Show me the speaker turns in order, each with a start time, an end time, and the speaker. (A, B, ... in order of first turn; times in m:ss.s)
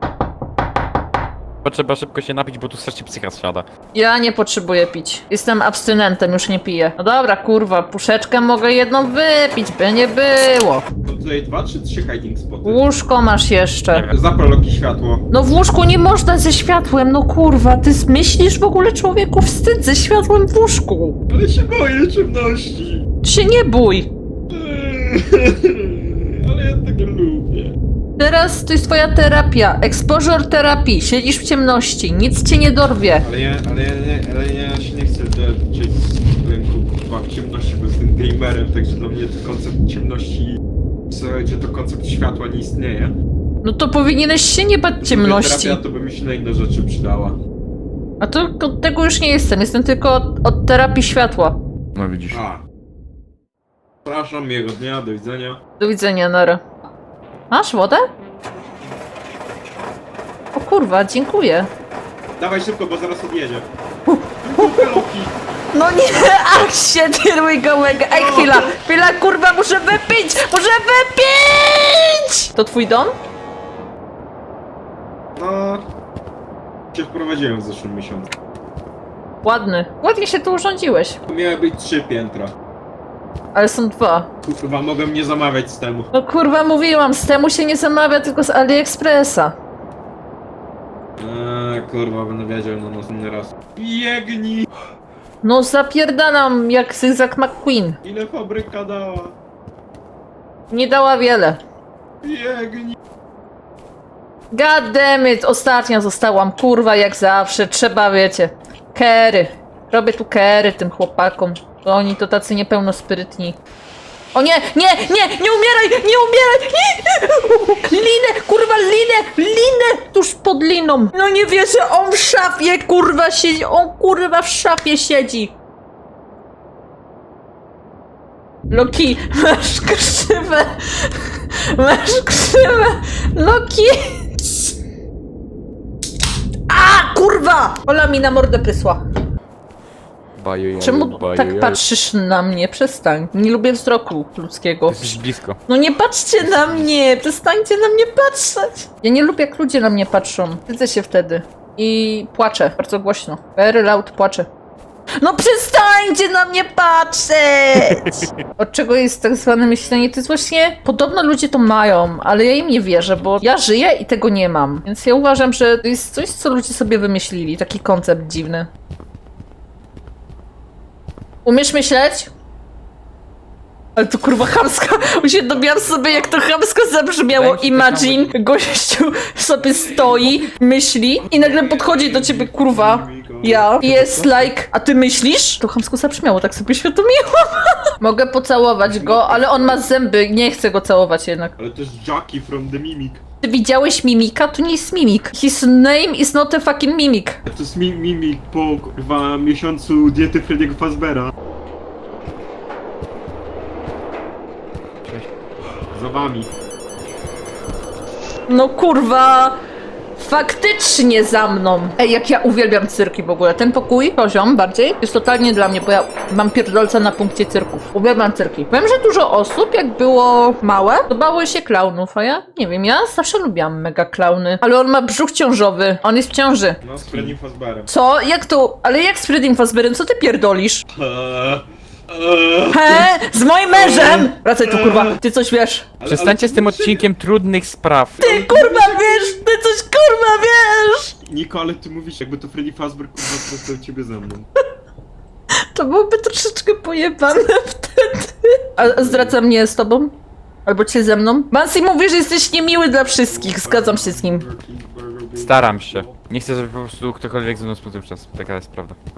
0:01.6-0:03.7 A
0:03.9-0:10.8 B
0:11.0-0:12.8 C
0:12.6-0:14.1 B
0:14.1-0:15.3 C
0:15.3-0:21.2 B
0:21.3-0:23.1 C
0:23.2-0:24.1 B
0:24.5-0:27.8 C
0:28.2-0:33.3 B
0:33.2-0:43.2 C
0:43.6-0:45.8 B
0:45.0-0:47.4 C
0:48.2-0:51.6 B
0:52.0-0:52.4 A
0:52.3-0:52.6 C
0:54.0-0:55.6 C
0:55.8-0:56.6 B
0:57.5-0:58.1 B
1:00.5-1:01.7 B
1:02.4-1:03.7 C
1:04.1-1:05.0 B
1:04.4-1:05.4 C
1:05.7-1:13.2 B
1:08.1-1:08.8 C
1:15.4-1:15.9 C
1:16.9-1:18.3 C
1:19.4-1:21.2 B
1:21.3-1:22.6 C
1:23.6-1:24.3 B
1:24.4-1:26.1 C
1:26.1-1:29.6 B
1:31.2-1:34.7 C
1:35.4-1:38.0 B
1:38.0-1:39.4 C
1:40.7-1:41.6 B
1:42.2-1:43.0 C
1:44.5-1:53.6 B
1:54.3-2:05.6 B
2:08.7-2:14.8 B
2:16.7-2:19.0 B
2:20.4-2:21.8 A
2:20.8-2:34.5 B
2:24.9-2:25.6 A
2:35.2-2:48.7 B
2:51.4-2:52.3 B
2:54.0-3:11.6 B
2:54.8-2:56.5 C
2:57.3-2:58.3 A
3:01.2-3:04.5 C
3:08.8-3:09.9 C
3:11.6-3:13.2 C
3:13.4-3:17.4 B
3:17.5-3:21.3 C
3:25.9-3:26.5 C
3:28.5-3:29.6 B
3:30.2-3:46.8 B
3:46.8-3:47.9 C
3:47.9-3:50.8 B
3:50.9-3:53.1 C
3:52.7-3:55.9 B
3:53.7-3:55.2 C
3:56.0-3:57.0 C
3:56.1-3:58.2 A
3:58.2-3:59.4 C
3:58.2-4:01.1 B
4:01.2-4:04.5 C
4:05.5-4:10.1 B
4:08.8-4:09.4 C
4:10.6-4:14.4 B
4:13.2-4:16.2 C
4:15.4-4:19.0 A